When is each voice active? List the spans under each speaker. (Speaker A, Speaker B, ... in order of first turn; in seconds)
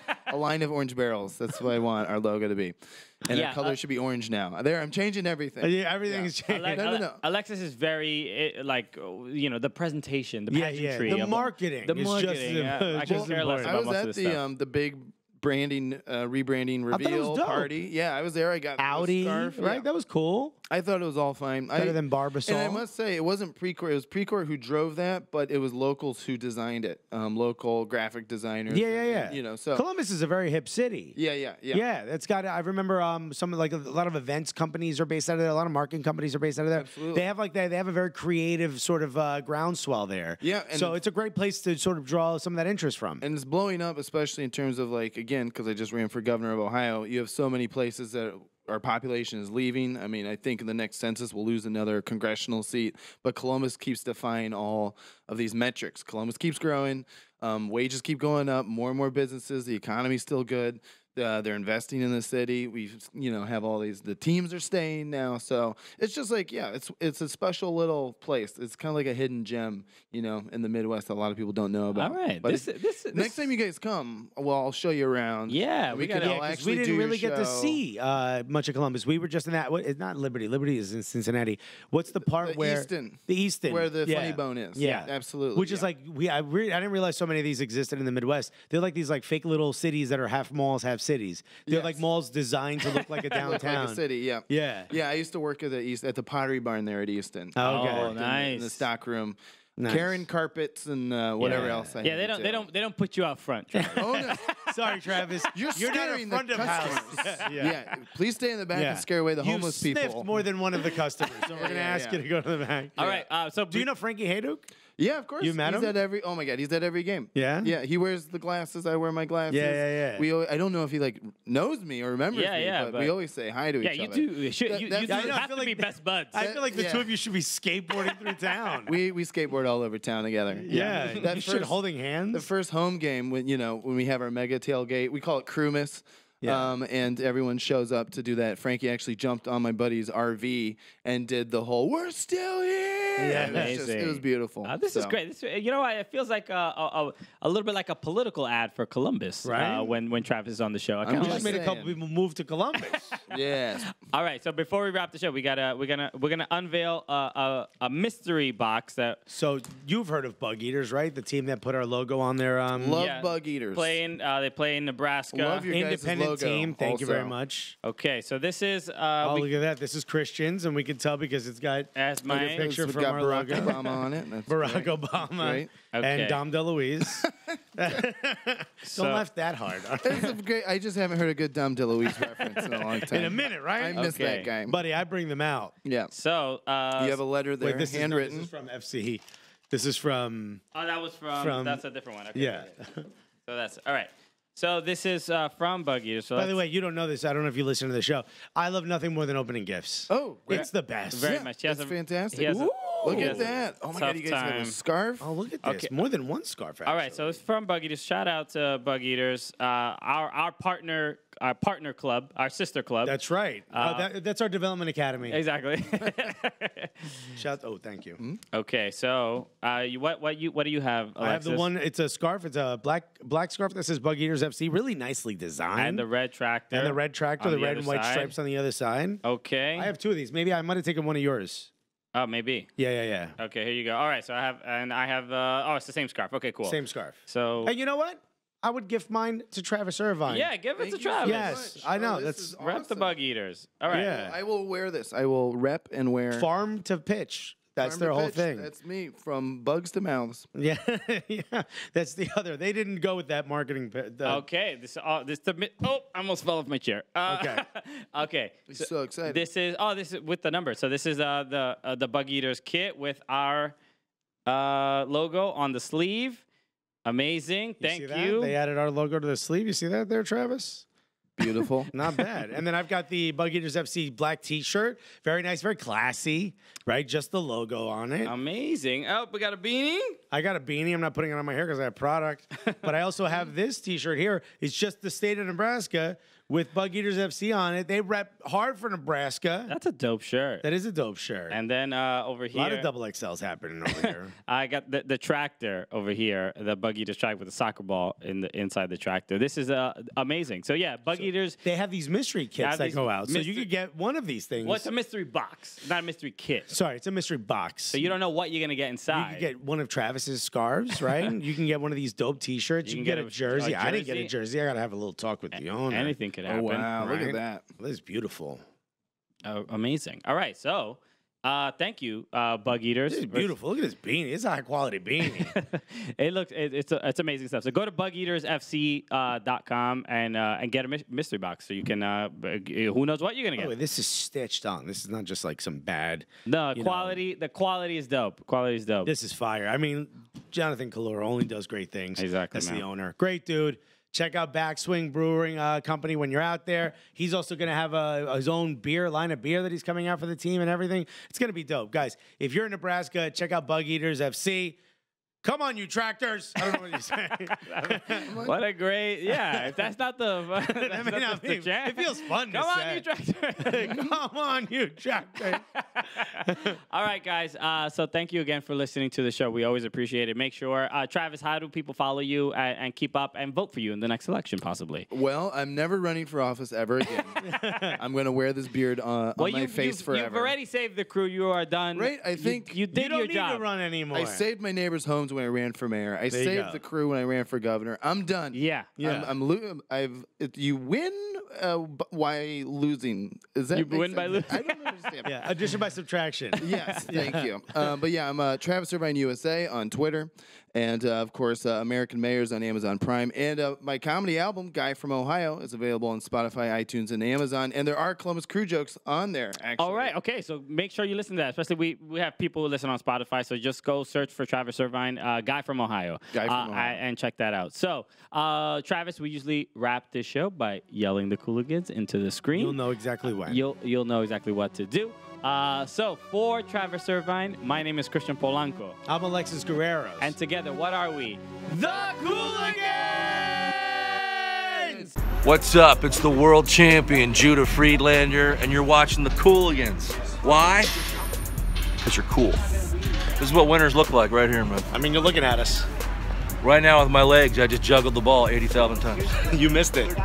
Speaker A: 0.2-7.2, 13.1-19.9, 20.7-29.9, 31.2-31.8, 36.8-37.3, 40.4-41.0, 43.2-77.8, 82.3-85.9, 91.7-92.0, 93.3-102.7, 104.0-104.5, 105.5-110.3, 111.5-112.2, 113.0-113.2, 115.0-125.4, 126.4-127.1, 128.8-131.8, 132.3-145.2, 151.0-151.9, 153.3-153.9, 162.8-163.9, 165.3-167.3, 172.5-175.7, 180.0-184.8, 185.8-186.1, 187.0-188.5, 200.1-200.7, 201.2-205.3, 240.8-243.2, 243.9-246.5, 247.8-250.5, 258.7-259.4, 271.4-271.9, 316.5-317.6, 358.2-358.6, 375.1-380.5, 381.9-382.8, 384.1-395.4, 396.6-410.1, 416.3-417.0
Speaker B: 3.3-3.8, 6.1-14.4, 72.0-73.5, 75.5-76.4, 97.6-98.8, 101.4-104.5, 113.0-113.9, 122.3-123.1, 123.8-126.5, 130.7-131.2, 143.3-151.7, 154.0-159.2, 163.0-165.7, 167.8-169.5, 172.0-172.7, 175.9-176.4, 178.8-179.2, 183.9-184.5, 186.1-187.2, 190.7-192.7, 193.5-196.6, 200.5-204.8, 205.6-205.9, 206.8-213.2, 213.7-214.1, 215.3-217.3, 218.5-221.7, 225.8-228.3, 229.2-229.9, 232.1-232.7, 233.4-237.7, 240.3-241.8, 242.6-244.2, 254.2-263.8, 264.5-266.4, 267.1-268.5, 278.2-280.2, 289.7-290.7, 291.5-292.9, 293.9-301.6, 302.6-303.7, 304.6-306.7, 307.9-309.5, 312.8-314.3, 315.6-317.4, 319.4-323.5, 325.2-333.7, 336.5-339.1, 342.2-342.9, 357.7-364.0, 365.6-375.1, 379.4-383.6, 388.5-389.0, 393.7-394.8, 396.6-397.4, 409.8-422.8, 423.4-429.0, 430.2-432.7
Speaker C: 5.6-6.8, 10.5-13.8, 16.9-17.7, 18.8-20.6, 21.8-22.9, 28.7-31.2, 31.7-43.2, 76.2-94.9, 97.5-98.2, 99.8-100.2, 101.4-102.0, 103.7-107.8, 108.7-113.1, 113.7-114.7, 115.4-115.9, 117.3-117.8, 119.5-120.3, 125.0-128.9, 130.6-132.5, 136.4-136.7, 143.2-143.8, 149.4-149.9, 151.1-153.1, 159.3-163.0, 165.7-167.8, 169.2-180.4, 182.2-185.7, 187.6-190.6, 191.4-191.8, 192.3-193.0, 196.4-201.4, 203.1-203.6, 205.2-207.4, 213.0-215.4, 217.3-218.2, 221.2-226.1, 226.7-229.2, 229.8-231.7, 232.8-233.4, 236.7-240.5, 241.2-242.6, 243.9-244.4, 246.3-248.7, 250.6-254.4, 257.3-257.6, 267.8-270.9, 271.9-278.3, 280.3-289.7, 290.6-291.6, 292.5-294.3, 301.1-304.9, 306.7-308.1, 309.1-316.1, 317.8-318.6, 323.1-325.5, 333.6-337.2, 339.1-354.8, 355.4-358.3, 359.3-359.8, 360.6-363.1, 363.6-365.6, 366.2-366.8, 377.4-378.0, 382.9-384.4, 386.3-386.8, 389.0-389.3, 395.2-397.5, 422.5-423.6, 429.1-430.4, 431.7-435.1, 444.9-445.9, 449.4-450.1
Speaker D: 435.4-441.1, 442.0-442.6, 443.4-444.9, 446.6-449.4